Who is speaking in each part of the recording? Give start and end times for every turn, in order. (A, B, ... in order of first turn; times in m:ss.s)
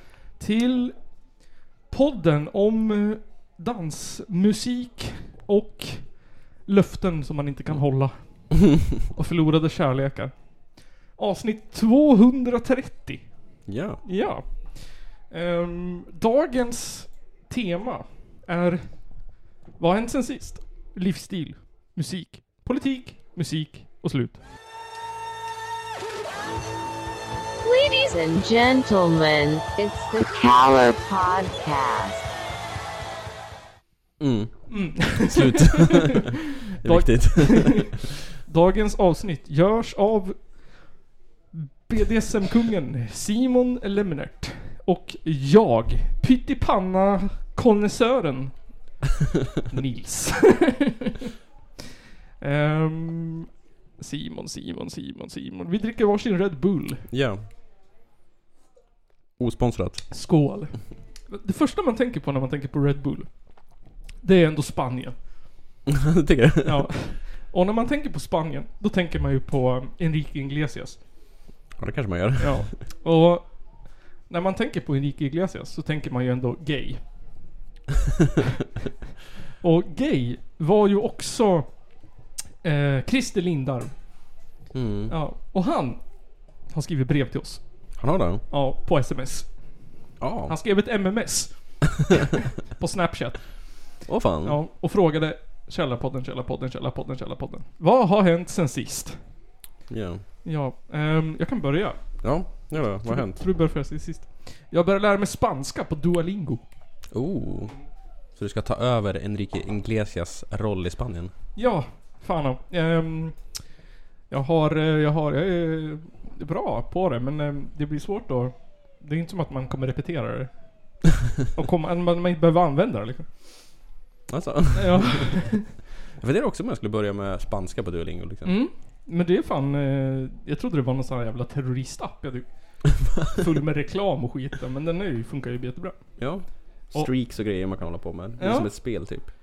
0:00.3-0:01.1 A
0:01.9-0:24.4 A
0:13.7-0:14.0 B
0:27.6-0:32.3 C
0:34.2-0:38.1 B
0:34.7-0:40.9 A
0:41.5-0:48.7 A
0:49.7-0:51.1 A
0:52.4-0:57.1 A
0:57.1-0:57.4 B
0:59.4-1:00.1 B
1:00.1-1:03.6 A
1:04.2-1:05.2 A
1:05.9-1:06.9 B
1:06.6-1:11.0 A
1:11.8-1:12.7 B
1:12.4-1:17.4 A
1:19.6-1:21.9 A
1:22.6-1:24.2 A
1:24.7-1:25.1 B
1:25.1-1:26.0 A
1:26.6-1:27.6 A
1:28.0-1:28.4 B
1:28.5-1:29.7 A
1:30.2-1:30.6 B
1:30.5-1:32.2 A
1:32.7-1:33.9 A
1:34.0-1:34.6 B
1:34.4-1:39.2 A
1:39.9-1:40.2 B
1:40.4-1:46.7 A
1:42.2-1:43.4 B
1:47.1-1:47.8 B
1:48.4-1:51.3 B
1:51.6-1:53.7 A
1:54.3-2:01.0 A
2:01.5-2:03.8 A
2:04.3-2:08.6 B
2:04.7-2:05.7 A
2:08.4-2:17.1 A
2:16.2-2:19.3 B
2:18.4-2:19.0 A